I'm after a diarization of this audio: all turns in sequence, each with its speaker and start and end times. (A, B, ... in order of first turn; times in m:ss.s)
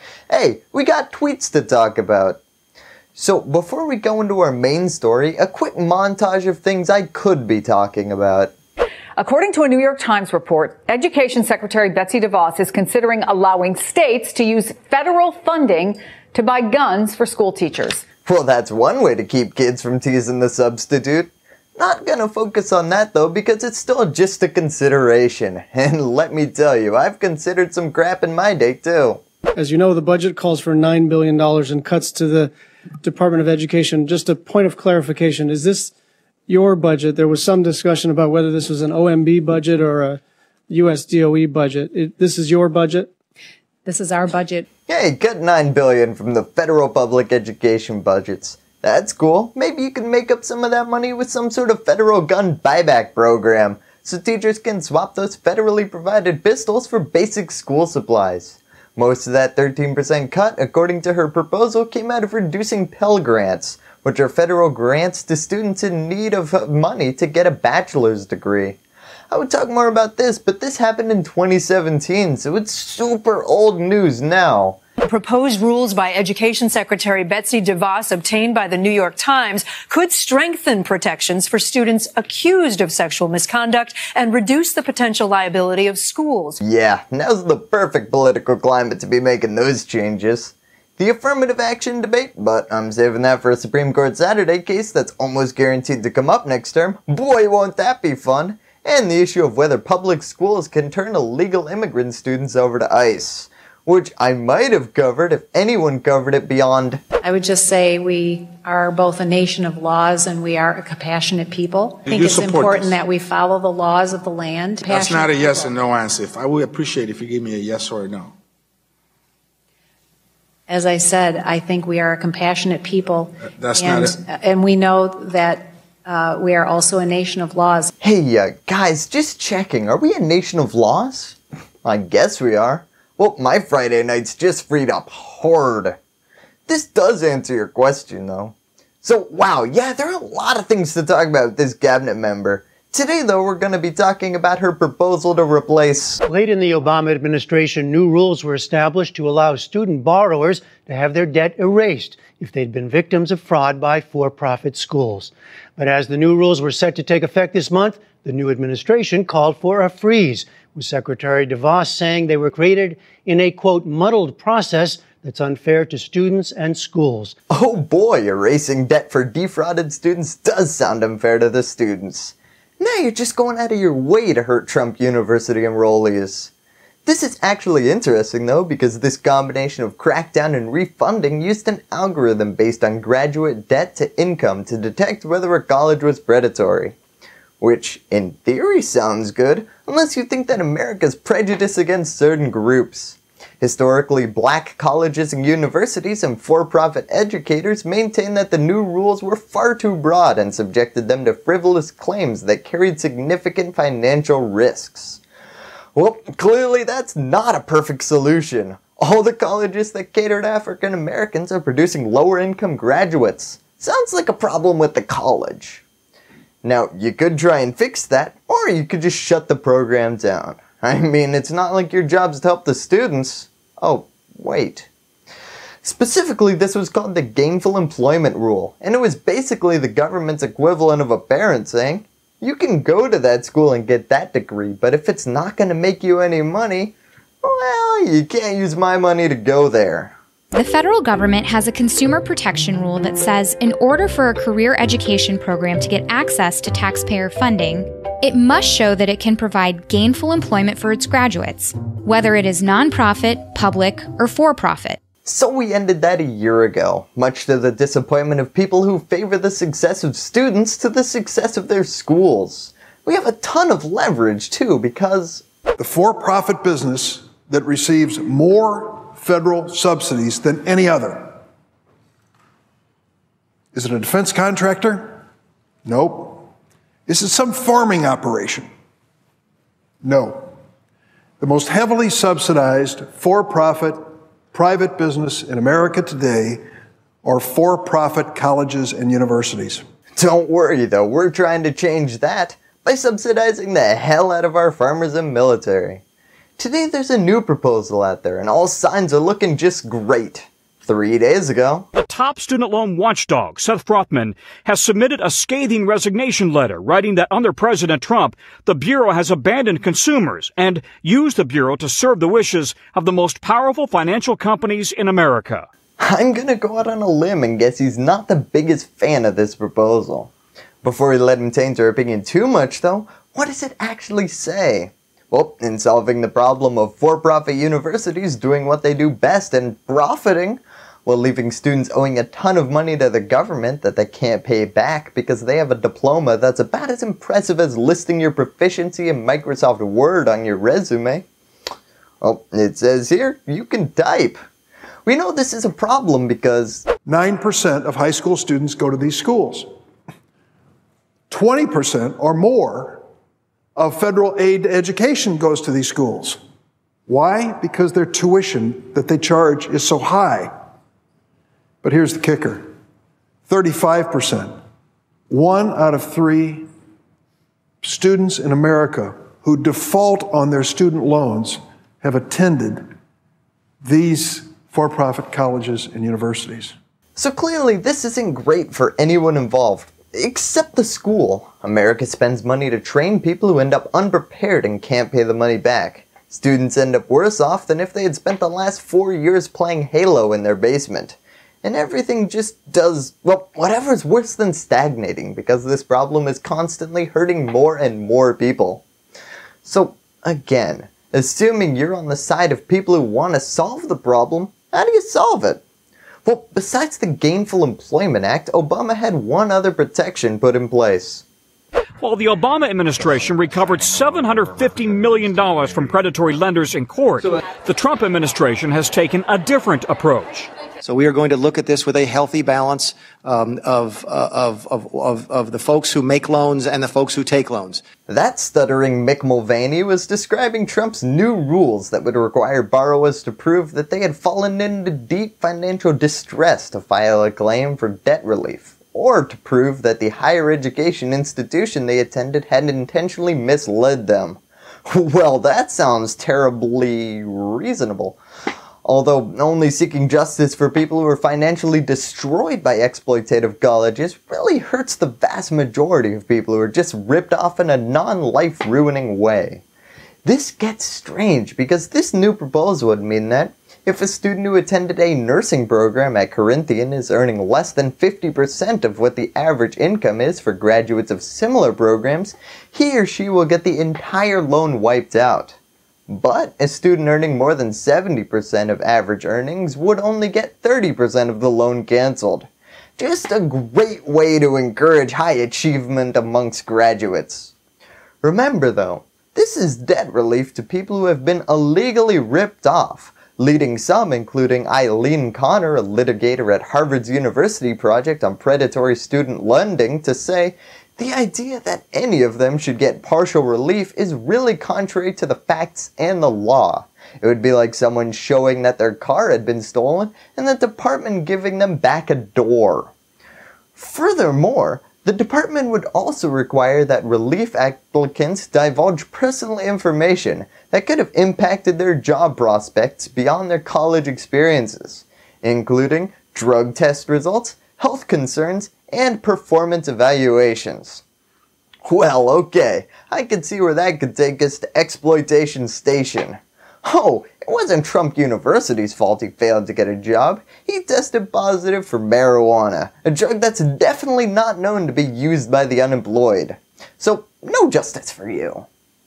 0:00.3-0:02.4 A
0:03.2-0:08.5 A
0:09.2-0:18.0 B
0:18.2-0:29.2 A
0:29.6-0:35.9 C
0:36.5-0:43.1 C
0:43.8-0:44.6 D
0:44.9-1:08.8 A
1:09.3-1:14.8 A
1:15.0-1:26.6 E
1:26.6-1:47.0 A
1:47.2-1:55.7 D
1:52.1-1:53.0 F
1:54.8-1:58.3 F
2:00.7-2:07.9 D
2:03.4-2:04.2 F
2:08.0-2:16.0 A
2:16.7-2:26.2 A
2:26.2-2:47.4 G
2:47.5-2:56.5 A
2:57.0-3:07.0 A
3:07.6-3:25.2 A
3:25.9-3:35.8 A
3:36.6-3:44.9 A
3:45.8-4:00.2 A
4:00.5-4:15.0 H
4:15.2-4:25.4 A
4:25.8-4:31.3 I
4:33.7-4:35.2 I
4:35.8-4:36.5 I
4:37.1-4:38.7 I
4:40.0-4:40.5 I
4:41.4-4:44.0 I
4:44.5-4:46.6 I
4:47.2-4:49.8 I
4:50.2-4:56.0 A
4:56.6-5:01.9 A
5:01.9-5:15.6 J
5:16.0-5:20.3 A
5:20.8-5:41.2 A
5:42.2-5:44.4 A
5:45.0-5:46.8 A
5:47.0-5:49.7 I
5:51.3-5:53.0 I
5:53.8-5:56.4 I
5:57.1-6:00.5 I
6:01.8-6:02.6 I
6:03.5-6:04.5 I
6:05.3-6:06.6 I
6:07.8-6:12.8 I
6:13.8-6:16.7 I
6:17.2-6:38.8 A
6:39.6-6:45.6 A
6:46.2-6:51.2 A
6:52.0-7:00.5 J
7:00.8-7:07.9 K
7:08.1-7:28.2 A
7:28.8-7:39.6 A
7:40.2-7:55.6 A
7:56.1-8:07.5 A
8:08.2-8:32.9 A
8:33.8-8:51.0 A
8:51.8-9:08.7 A